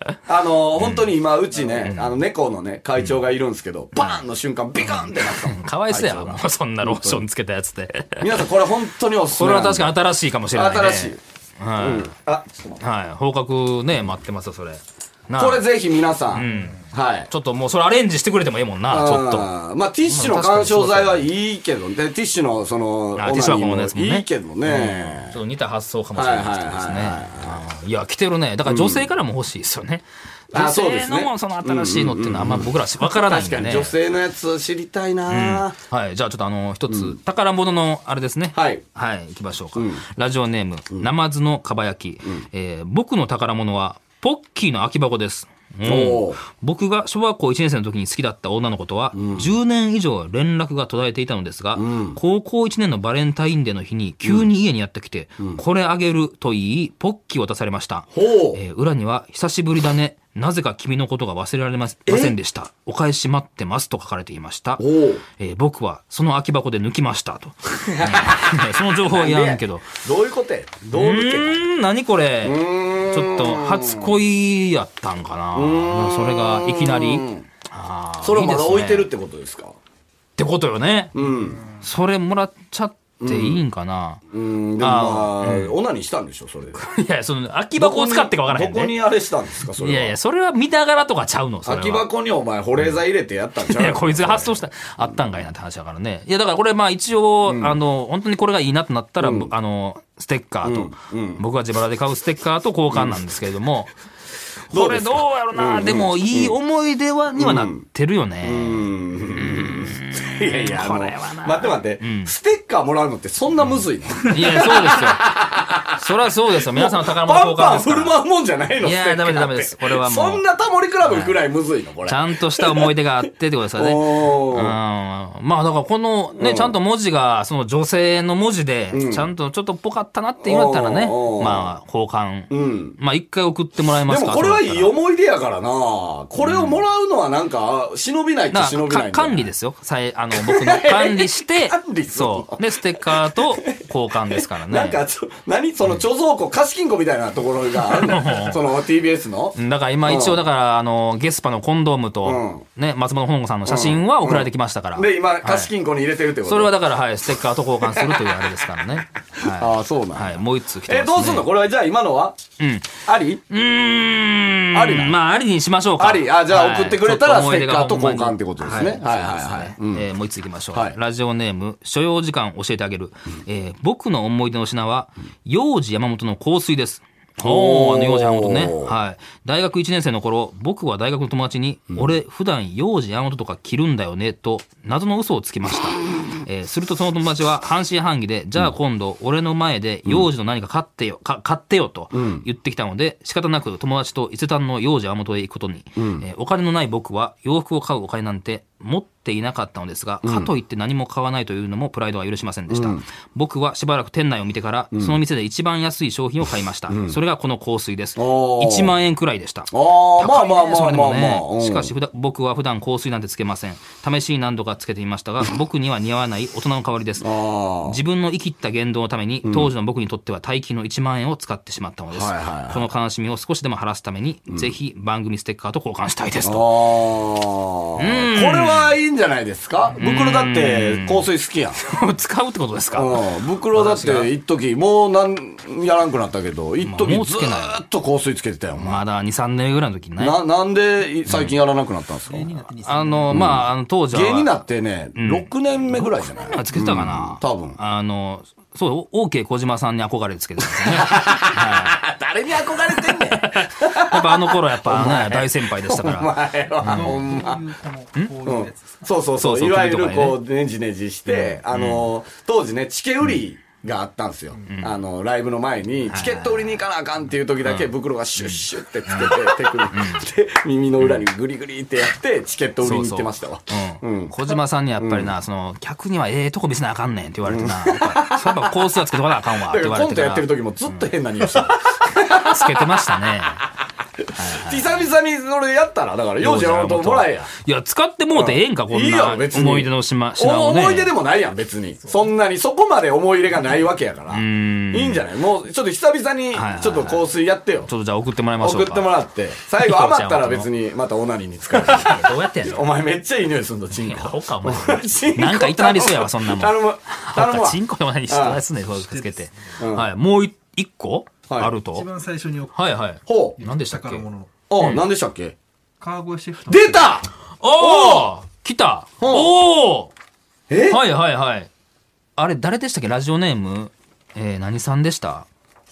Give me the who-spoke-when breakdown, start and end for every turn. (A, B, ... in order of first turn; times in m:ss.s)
0:00.3-0:07.2 A
0:00.8-0:01.1 B
0:01.8-0:02.2 B
0:04.8-0:08.5 B
0:08.2-0:10.0 A
0:09.4-0:12.1 B
0:10.5-0:11.2 A
0:11.8-0:12.8 A
0:12.8-0:15.6 B
0:15.4-0:17.3 A
0:16.3-0:19.5 B
0:18.9-0:25.4 A
0:20.0-0:21.3 B
0:23.2-0:34.0 B
0:26.2-0:27.6 A
0:28.6-0:29.1 A
0:30.5-0:35.8 A
0:35.3-1:10.0 B
0:36.9-0:37.2 A
0:38.5-0:38.8 A
0:39.8-0:40.0 A
0:45.8-0:46.4 A
0:49.2-0:49.5 A
0:51.8-0:52.2 A
0:58.1-0:58.6 A
1:02.1-1:02.4 A
1:04.8-1:05.2 A
1:07.7-1:11.6 A
1:10.9-1:19.1 B
1:12.4-1:14.2 A
1:15.6-1:17.4 A
1:18.2-1:19.8 A
1:20.4-1:21.2 B
1:21.2-1:21.6 A
1:21.7-1:24.2 B
1:23.2-1:23.6 A
1:24.3-1:26.8 A
1:24.8-1:25.7 B
1:26.8-1:29.0 B
1:27.8-1:30.1 A
1:29.8-1:32.1 B
1:31.6-1:34.6 A
1:33.7-1:43.9 B
1:37.4-1:37.8 A
1:39.2-1:39.5 A
1:40.6-1:41.4 A
1:42.9-1:43.2 A
1:44.7-1:52.3 B
1:44.7-1:46.6 A
1:47.4-1:47.8 A
1:48.4-1:56.0 A
1:54.3-1:55.2 B
1:56.0-1:58.2 B
1:56.7-2:02.9 A
1:58.8-2:00.4 B
2:01.0-2:01.4 B
2:02.0-2:14.9 B
2:03.8-2:04.8 A
2:06.4-2:06.7 A
2:08.9-2:09.3 A
2:10.4-2:11.7 A
2:12.5-2:13.0 A
2:14.1-2:19.5 A
2:16.4-2:16.8 B
2:18.5-2:25.0 B
2:20.3-2:30.4 A
2:28.0-2:28.6 B
2:29.6-2:35.7 B
2:32.2-2:32.6 A
2:33.7-2:36.7 A
2:36.4-2:41.5 B
2:39.4-2:42.4 A
2:42.6-3:37.3 B
2:43.0-2:43.4 A
2:44.7-2:45.2 A
2:46.0-2:50.1 A
2:57.4-2:59.0 A
3:12.1-3:12.5 A
3:16.0-3:16.2 A
3:20.2-3:20.5 A
3:22.7-3:23.0 A
3:26.9-3:27.2 A
3:28.2-3:29.0 A
3:29.7-3:31.9 A
3:37.2-3:38.0 A
3:37.8-3:46.8 B
3:39.4-3:39.7 A
3:42.1-3:42.8 A
3:46.4-3:51.8 A
3:48.0-3:49.0 B
3:50.0-3:54.3 B
3:52.9-3:59.0 A
3:56.8-3:57.8 B
3:58.8-4:00.4 B
4:00.2-4:02.5 A
4:01.3-4:01.5 B
4:02.3-4:03.4 C
4:02.8-4:04.5 B
4:03.3-4:07.8 A
4:05.2-4:12.0 B
4:10.7-4:17.6 A
4:12.9-4:17.2 B
4:16.8-4:19.0 C
4:18.4-4:34.4 A
4:19.4-4:20.4 B
4:21.3-4:22.1 B
4:24.7-4:24.9 B
4:26.1-4:26.8 B
4:27.6-4:27.9 B
4:28.4-4:30.3 B
4:32.8-4:41.0 B
4:35.0-4:35.3 A
4:37.5-4:38.8 A
4:39.6-4:43.2 A
4:42.2-4:43.6 B
4:44.2-4:47.5 A
4:44.3-4:45.1 B
4:46.4-4:51.1 B
4:48.3-4:57.9 A
4:54.3-4:55.2 B
4:56.5-4:57.3 B
4:57.9-4:59.1 B
4:58.6-5:08.6 A
4:59.8-5:00.7 B
5:01.7-5:02.9 B
5:03.9-5:12.1 B
5:09.1-5:09.5 C
5:09.8-5:10.1 A
5:11.5-5:11.8 A
5:11.9-5:12.9 C
5:12.7-5:14.2 B
5:13.3-5:13.6 A
5:13.6-5:14.6 C
5:14.7-5:15.6 A
5:14.8-5:15.0 B
5:16.0-5:17.2 C
5:16.7-5:18.3 A
5:17.6-5:20.1 B
5:19.2-5:19.6 A
5:20.7-5:21.0 A
5:20.9-5:21.7 B
5:22.4-5:25.5 B